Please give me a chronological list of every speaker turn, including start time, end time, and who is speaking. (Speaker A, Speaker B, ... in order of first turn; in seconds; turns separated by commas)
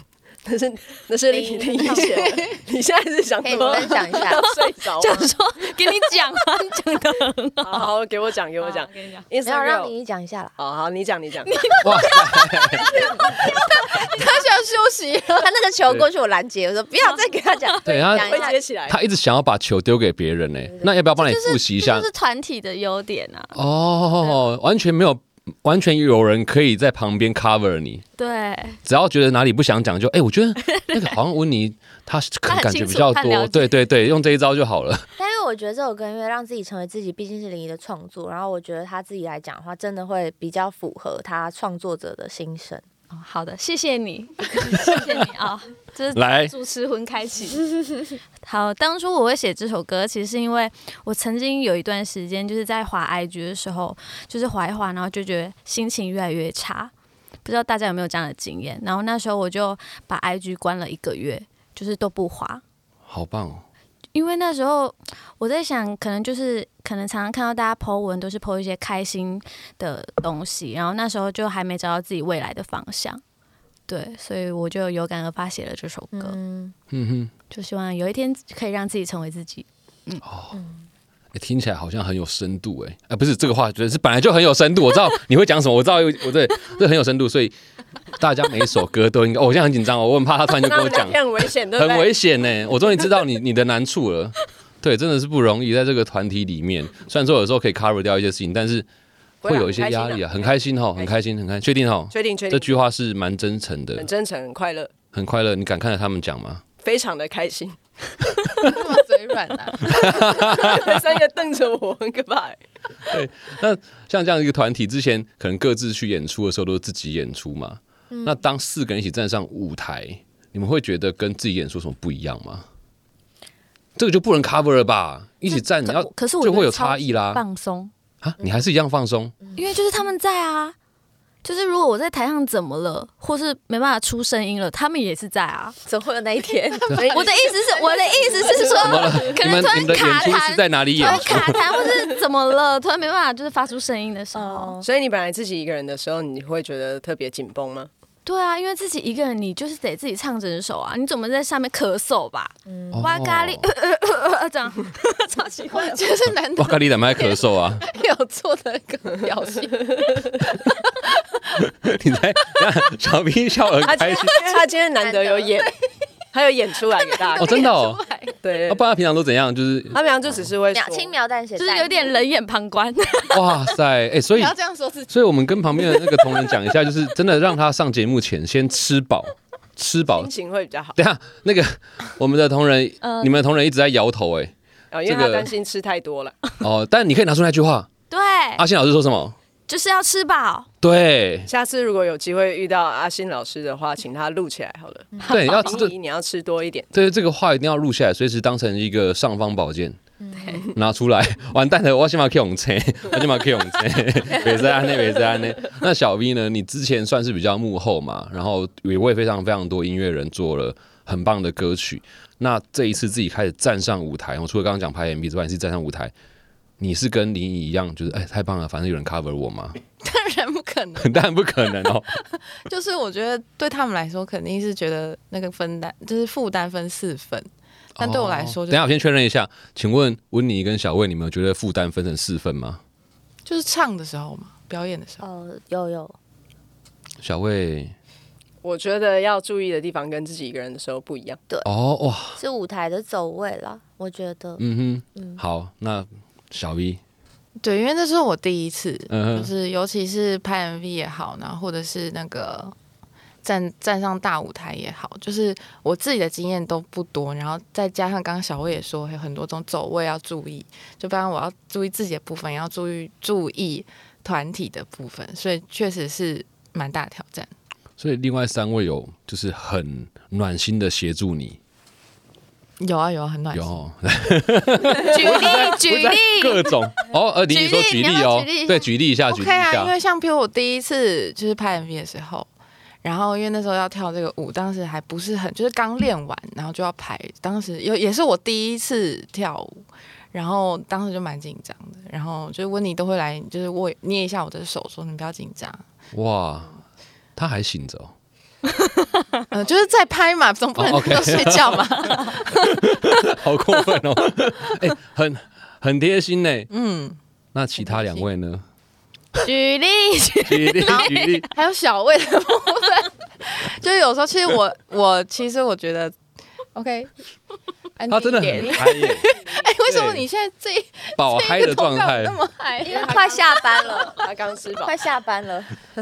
Speaker A: 0.5-5.3, Speaker B: 1.3-2.4, Speaker C: 1.9-2.6, Speaker B: 3.4-4.4, Speaker D: 4.3-7.9, Speaker A: 7.6-9.9, Speaker D: 8.6-9.3, Speaker B: 9.4-10.5, Speaker A: 10.6-11.8, Speaker D: 11.5-14.0, Speaker E: 11.8-12.9, Speaker C: 13.0-15.5, Speaker B: 15.4-18.6, Speaker D: 17.0-17.8, Speaker E: 17.8-22.1, Speaker A: 18.1-19.0, Speaker D: 21.1-23.5, Speaker E: 23.5-28.0, Speaker D: 28.2-28.8, Speaker E: 28.8-35.1, Speaker D: 30.6-31.1, Speaker D: 32.5-33.8, Speaker B: 35.2-42.8, Speaker D: 43.1-56.9, Speaker E: 44.6-45.1, Speaker E: 46.1-46.5, Speaker D: 57.4-62.6, Speaker E: 63.1-63.6, Speaker D: 64.1-73.2, Speaker D: 73.9-76.4, Speaker B: 76.1-76.7, Speaker E: 76.9-77.3, Speaker D: 77.5-80.2, Speaker E: 80.2-80.5, Speaker B: 80.5-80.8, Speaker E: 81.3-87.5, Speaker E: 88.2-98.9, Speaker A: 90.6-92.1, Speaker A: 99.4-101.1, Speaker E: 99.4-104.1, Speaker A: 102.1-102.8, Speaker A: 104.0-104.9, Speaker E: 105.1-106.6, Speaker A: 106.8-108.3, Speaker C: 108.6-110.0, Speaker E: 109.8-111.0, Speaker A: 109.8-112.6, Speaker E: 113.1-122.7, Speaker B: 118.1-118.3, Speaker E: 124.0-127.4, Speaker D: 125.5-127.9, Speaker E: 128.2-129.3, Speaker D: 129.5-130.7, Speaker D: 131.4-135.8, Speaker B: 135.8-137.3, Speaker D: 136.9-144.8, Speaker E: 138.8-141.6, Speaker A: 141.6-142.0, Speaker B: 144.3-144.8, Speaker A: 144.8-147.9, Speaker D: 148.2-156.1, Speaker B: 152.7-153.1, Speaker E: 152.9-153.7, Speaker C: 155.7-161.4, Speaker E: 156.6-157.8, Speaker E: 161.6-164.5, Speaker A: 163.8-165.7, Speaker B: 165.0-165.7, Speaker A: 166.3-167.7, Speaker C: 167.2-168.4, Speaker E: 167.4-168.0, Speaker A: 168.4-168.8, Speaker E: 168.7-170.4, Speaker A: 169.9-171.1, Speaker B: 170.7-172.2, Speaker D: 171.6-173.5, Speaker E: 173.3-174.6, Speaker C: 174.3-175.1, Speaker E: 175.1-180.3, Speaker D: 176.0-176.3, Speaker A: 180.1-181.0, Speaker E: 180.9-184.5, Speaker D: 183.0-183.3, Speaker A: 184.9-186.5, Speaker E: 185.0-185.5, Speaker E: 186.6-187.9, Speaker D: 188.1-188.6, Speaker E: 188.6-189.3, Speaker D: 189.7-190.7, Speaker E: 190.8-191.5, Speaker A: 191.5-196.9, Speaker D: 195.2-195.8, Speaker E: 195.2-195.9, Speaker E: 196.9-200.0, Speaker B: 200.2-200.7, Speaker D: 200.4-200.7, Speaker E: 200.7-216.1, Speaker E: 216.8-219.8, Speaker C: 220.0-228.9, Speaker E: 221.0-222.1, Speaker E: 228.0-232.8, Speaker C: 233.4-235.2, Speaker B: 235.2-236.2, Speaker E: 237.2-237.9, Speaker A: 238.6-241.4, Speaker E: 241.6-242.4, Speaker B: 242.4-244.6, Speaker E: 244.6-247.0, Speaker C: 247.6-252.7, Speaker E: 249.1-249.5, Speaker C: 253.4-267.5, Speaker E: 268.0-271.6, Speaker C: 272.8-273.7, Speaker E: 273.5-279.9, Speaker D: 275.0-276.8, Speaker D: 277.5-278.9, Speaker C: 279.3-282.5, Speaker C: 283.0-295.8, Speaker E: 296.1-296.8, Speaker E: 297.4-298.1, Speaker C: 299.5-303.0, Speaker E: 300.8-306.7, Speaker C: 306.7-307.2, Speaker E: 307.5-308.6, Speaker C: 307.8-308.3, Speaker D: 309.4-311.4, Speaker E: 310.5-311.5, Speaker C: 310.9-316.1, Speaker C: 316.7-317.1, Speaker C: 318.0-323.3, Speaker E: 318.1-319.3, Speaker E: 319.9-320.2, Speaker E: 321.2-322.4, Speaker B: 322.8-324.2, Speaker A: 322.8-325.1, Speaker B: 324.8-325.8